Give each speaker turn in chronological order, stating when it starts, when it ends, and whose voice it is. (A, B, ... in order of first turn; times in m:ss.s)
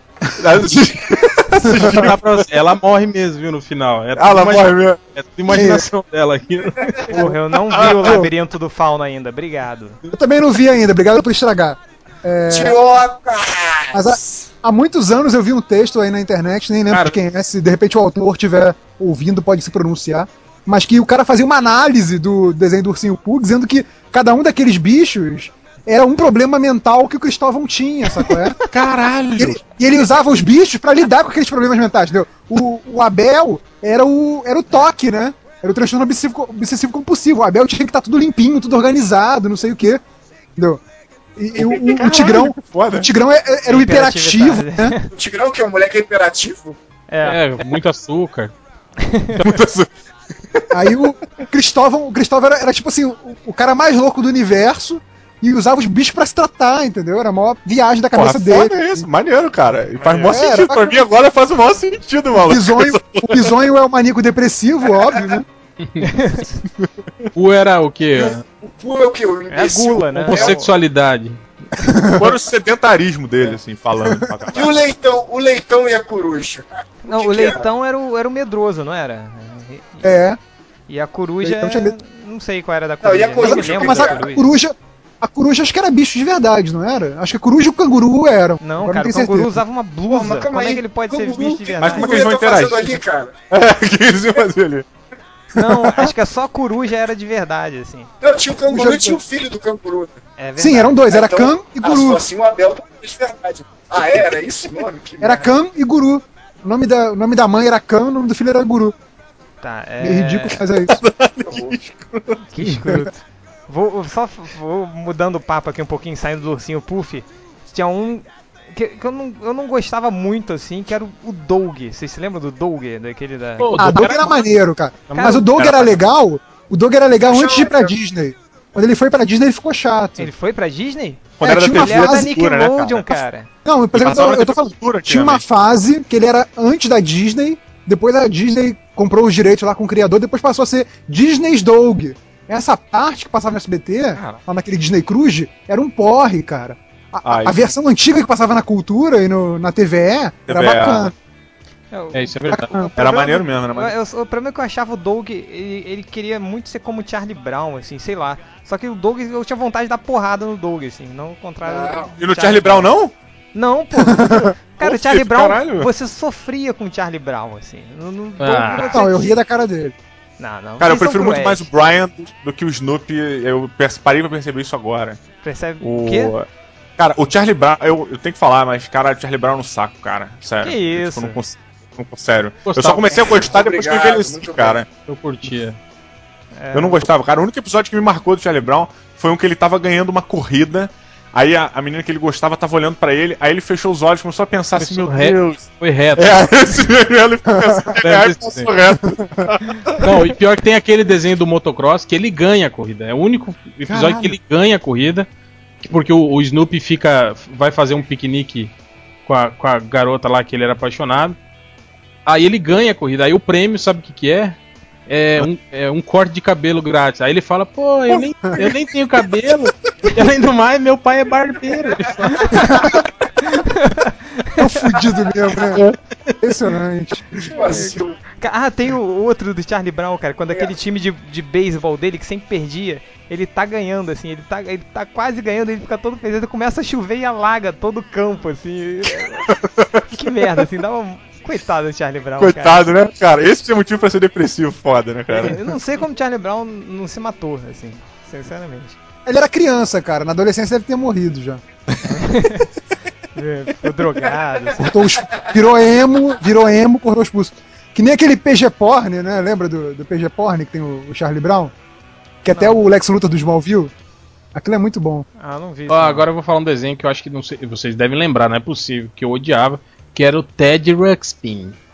0:00.4-0:02.4 A
0:01.6-0:02.1 B
0:01.8-0:07.1 C
0:04.2-0:05.0 A
0:05.5-0:05.8 B
0:06.8-0:07.2 D
0:07.1-0:10.0 E
0:07.1-0:08.3 B
0:07.7-0:08.1 A
0:10.1-0:12.8 B
0:12.5-0:14.2 D
0:13.9-0:28.6 B
0:16.9-0:17.2 C
0:28.6-0:29.6 A
0:29.4-0:40.0 B
0:41.4-0:44.9 B
0:41.6-0:43.1 A
0:43.6-0:45.1 E
0:45.1-0:46.8 D
0:47.1-0:47.4 E
0:47.2-0:48.5 C
0:49.0-0:49.5 E
0:49.4-0:49.9 A
0:50.7-0:59.1 B
0:58.1-1:03.5 A
1:00.0-1:00.3 E
1:00.2-1:01.0 B
1:02.4-1:05.4 B
1:05.8-1:06.1 C
1:06.0-1:06.6 E
1:06.8-1:07.3 A
1:07.3-1:08.4 C
1:08.1-1:10.6 D
1:09.5-1:10.7 E
1:10.2-1:11.4 C
1:11.8-1:12.3 B
1:12.1-1:14.8 A
1:14.5-1:17.6 D
1:17.0-1:20.2 E
1:20.0-1:20.4 B
1:20.9-1:24.5 E
1:21.4-1:22.0 B
1:23.0-1:24.2 D
1:23.4-1:29.6 B
1:28.6-1:32.2 E
1:30.1-1:33.4 D
1:31.8-1:34.8 A
1:35.5-1:38.1 E
1:38.2-1:40.2 D
1:38.7-1:39.2 B
1:40.4-1:41.0 E
1:40.6-1:42.2 B
1:41.1-1:45.5 D
1:45.2-1:48.9 B
1:49.6-1:50.6 E
1:50.0-1:51.0 B
1:50.9-1:52.4 A
1:51.4-1:51.8 D
1:52.5-2:04.1 E
2:03.6-2:04.4 C
2:03.7-2:10.3 B
2:05.1-2:05.6 E
2:07.2-2:07.9 D
2:10.2-2:13.5 E
2:11.4-2:13.1 A
2:11.4-2:12.3 B
2:13.6-2:31.1 B
2:13.9-2:15.4 A
2:24.2-2:24.4 A
2:27.2-2:27.7 A
2:30.5-2:31.1 A
2:31.9-2:42.9 E
2:32.1-2:32.8 C
2:32.5-2:32.9 B
2:33.0-2:33.9 A
2:41.6-2:42.1 D
2:42.2-2:43.1 A
2:43.5-2:49.4 E
2:44.0-2:44.5 B
2:44.8-2:45.9 A
2:48.4-2:49.0 C
2:48.8-2:49.9 B
2:50.4-2:51.7 E
2:50.8-2:55.2 A
2:55.4-2:56.3 E
2:55.8-3:04.9 A
3:00.6-3:01.4 E
3:02.6-3:03.3 C
3:03.1-3:04.8 D
3:05.1-3:05.8 C
3:06.6-3:07.0 E
3:06.7-3:20.1 A
3:14.8-3:16.5 C
3:17.5-3:17.8 B
3:18.0-3:18.7 C
3:19.0-3:19.5 B
3:20.0-3:25.3 C
3:23.9-3:24.3 A
3:25.8-3:28.7 C
3:29.2-3:31.4 C
3:32.2-3:42.6 C
3:42.3-3:42.8 E
3:42.5-3:43.0 B
3:43.4-3:45.0 E
3:44.6-3:45.8 B
3:45.7-3:46.4 C
3:46.4-3:47.4 B
3:47.4-3:48.2 D
3:47.5-4:02.9 E
3:59.5-4:00.1 A
4:02.4-4:05.6 A
4:05.3-4:09.0 E
4:09.2-4:11.6 B
4:12.1-4:12.7 E
4:13.3-4:15.0 E
4:14.8-4:21.7 B
4:15.2-4:15.5 D
4:22.4-4:23.9 B
4:22.5-4:22.8 E
4:24.5-4:25.2 B
4:25.4-4:26.2 E
4:25.9-4:31.8 C